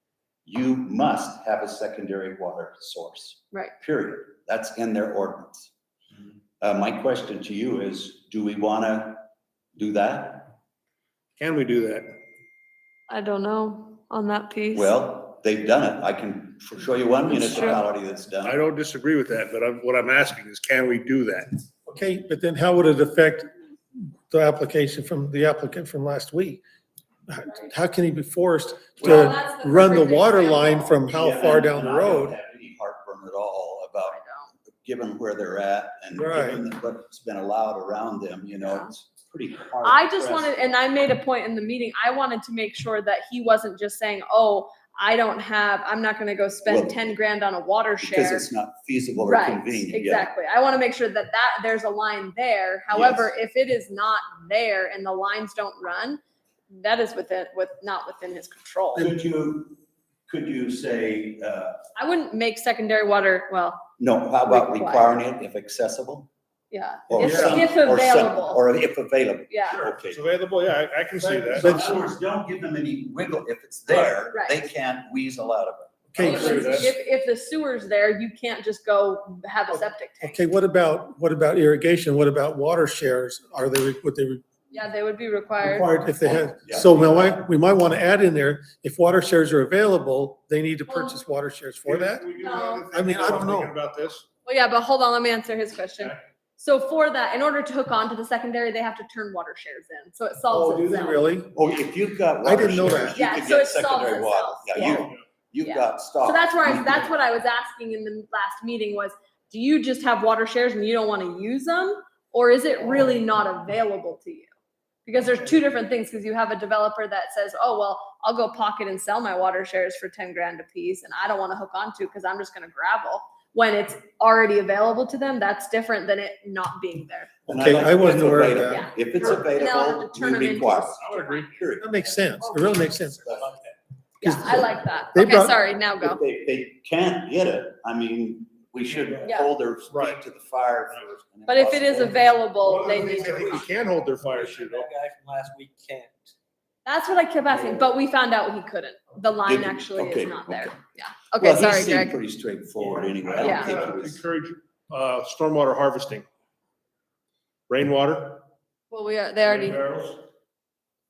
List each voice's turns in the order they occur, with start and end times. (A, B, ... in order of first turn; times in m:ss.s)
0:00.4-0:05.7 A
0:06.6-0:09.2 A
0:09.8-0:10.6 A
0:11.4-0:12.2 B
0:13.1-0:14.9 C
0:14.7-0:18.6 A
0:17.3-0:17.8 C
0:18.5-0:21.6 B
0:21.8-0:26.6 D
0:27.3-0:32.3 D
0:29.0-0:31.0 C
0:31.1-0:34.2 A
0:34.1-0:34.5 C
0:34.8-0:40.6 A
0:36.2-0:36.6 D
0:38.6-0:38.9 C
0:39.8-0:48.5 C
0:46.7-0:47.0 A
0:48.0-0:50.3 A
0:49.2-0:59.1 C
0:52.9-0:53.3 A
0:59.0-1:01.8 A
1:02.0-1:03.9 C
1:04.0-1:06.3 A
1:04.5-1:05.2 C
1:06.7-1:08.6 C
1:07.1-1:10.3 A
1:07.2-1:07.5 D
1:09.5-1:09.8 C
1:10.3-1:11.7 B
1:11.2-1:16.7 A
1:11.5-1:12.1 D
1:14.3-1:14.6 C
1:16.1-1:16.9 D
1:16.2-1:20.4 C
1:16.4-1:16.9 B
1:20.2-1:24.4 D
1:24.7-1:25.9 C
1:25.6-1:32.2 D
1:26.2-1:27.4 A
1:30.9-1:31.2 C
1:31.8-1:34.2 B
1:32.4-1:32.9 C
1:32.9-1:33.8 D
1:34.4-1:41.3 C
1:40.5-1:41.5 D
1:41.5-1:47.1 A
1:42.4-1:43.2 D
1:43.1-1:45.1 C
1:45.6-1:54.5 C
1:55.0-2:07.3 C
2:07.5-2:08.9 D
2:07.5-2:12.3 A
2:08.6-2:11.5 C
2:11.0-2:11.4 B
2:11.8-2:13.4 D
2:13.3-2:13.5 A
2:14.2-2:16.2 C
2:14.2-2:15.6 D
2:16.0-2:22.2 A
2:19.2-2:19.5 C
2:19.9-2:20.2 B
2:21.5-2:23.7 C
2:22.6-2:24.9 B
2:24.2-2:26.3 E
2:26.8-2:32.2 C
2:29.4-2:30.8 A
2:31.4-2:34.2 A
2:32.9-2:36.2 B
2:33.4-2:33.8 C
2:37.7-2:38.4 B
2:38.9-2:39.8 C
2:39.4-2:40.2 B